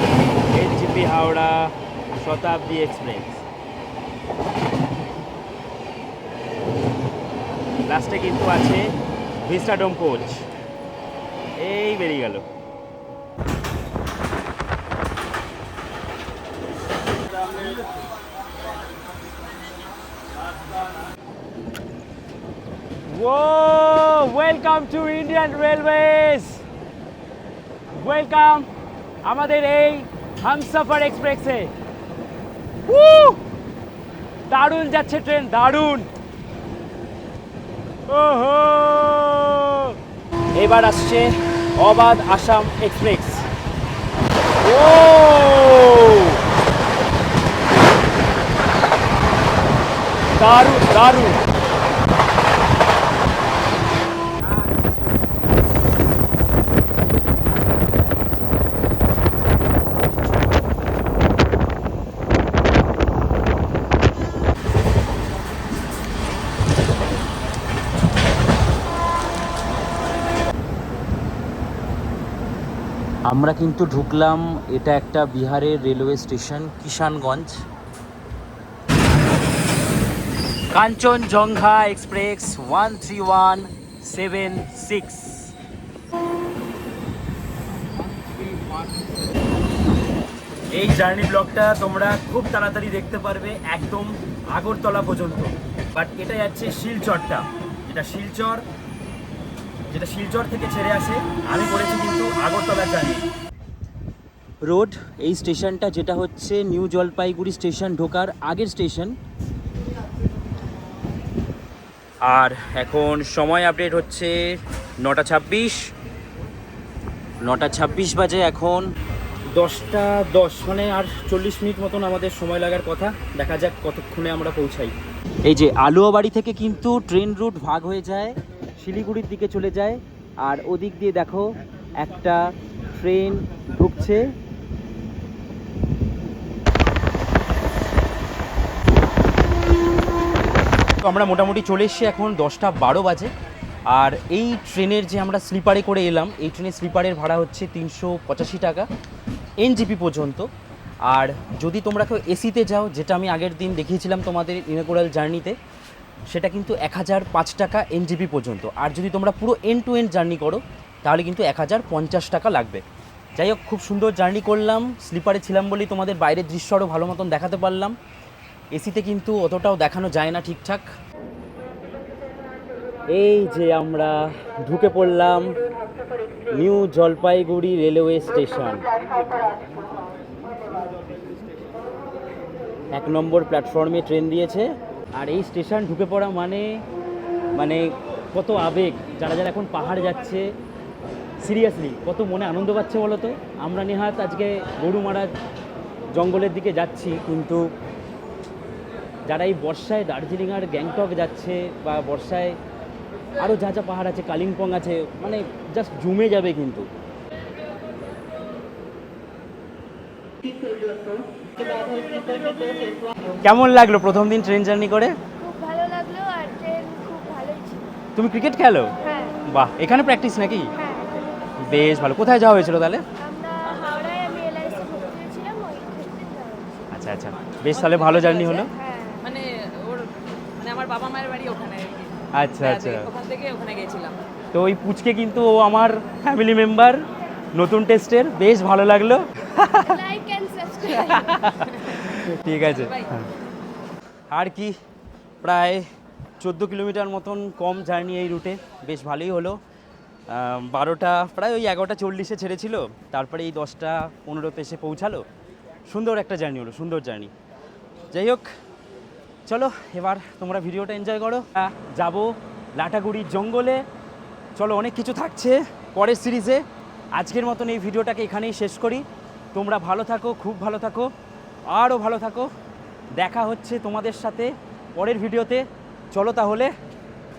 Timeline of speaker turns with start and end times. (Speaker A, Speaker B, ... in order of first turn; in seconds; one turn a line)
Speaker A: 0.5-3.4
Speaker A: 7.9-8.9
Speaker A: 9.4-10.4
Speaker A: 11.6-12.4
Speaker A: 23.1-26.6
Speaker A: 28.0-28.7
Speaker A: 29.3-31.7
Speaker A: 32.9-33.4
Speaker A: 34.5-36.1
Speaker A: 38.1-40.0
Speaker A: 40.6-43.5
Speaker A: 44.6-46.4
Speaker A: 50.4-51.4
Speaker A: 73.3-77.5
Speaker A: 80.7-85.5
Speaker A: 88.4-89.0
Speaker A: 90.7-98.6
Speaker A: 99.9-103.2
Speaker A: 104.7-109.2
Speaker A: 112.2-115.9
Speaker A: 117.4-118.9
Speaker A: 119.6-124.9
Speaker A: 125.5-134.3
Speaker A: 141.0-143.3
Speaker A: 143.9-148.9
Speaker A: 149.6-150.5
Speaker A: 151.1-155.6
Speaker A: 156.3-162.8
Speaker A: 163.4-167.9
Speaker A: 168.7-170.9
Speaker A: 173.1-175.5
Speaker A: 176.5-178.8
Speaker A: 182.9-186.8
Speaker A: 187.6-190.5
Speaker A: 191.4-195.3
Speaker A: 196.2-197.7
Speaker A: 199.3-202.6
Speaker A: 203.4-206.9
Speaker A: 213.4-215.2
Speaker B: 215.4-218.0
Speaker A: 218.2-218.9
Speaker B: 219.0-219.4
Speaker A: 219.5-220.7
Speaker B: 220.7-221.2
Speaker A: 221.6-223.0
Speaker B: 223.2-226.9
Speaker A: 226.9-228.7
Speaker C: 227.7-228.7
Speaker B: 228.7-229.3
Speaker C: 229.2-230.1
Speaker C: 230.6-234.1
Speaker A: 232.3-233.1
Speaker A: 234.5-237.0
Speaker A: 237.6-240.0
Speaker B: 239.8-241.5
Speaker A: 240.9-243.3
Speaker C: 241.7-241.9
Speaker C: 242.6-243.1
Speaker A: 244.3-244.8
Speaker A: 245.4-245.9
Speaker A: 246.4-249.6
Speaker A: 250.3-255.3
Speaker A: 255.9-257.3
Speaker A: 258.1-258.5
Speaker A: 259.5-263.8
Speaker A: 264.6-266.6
Speaker A: 267.2-269.0
Speaker A: 269.6-271.1
Speaker A: 271.7-272.5
Speaker A: 273.2-276.7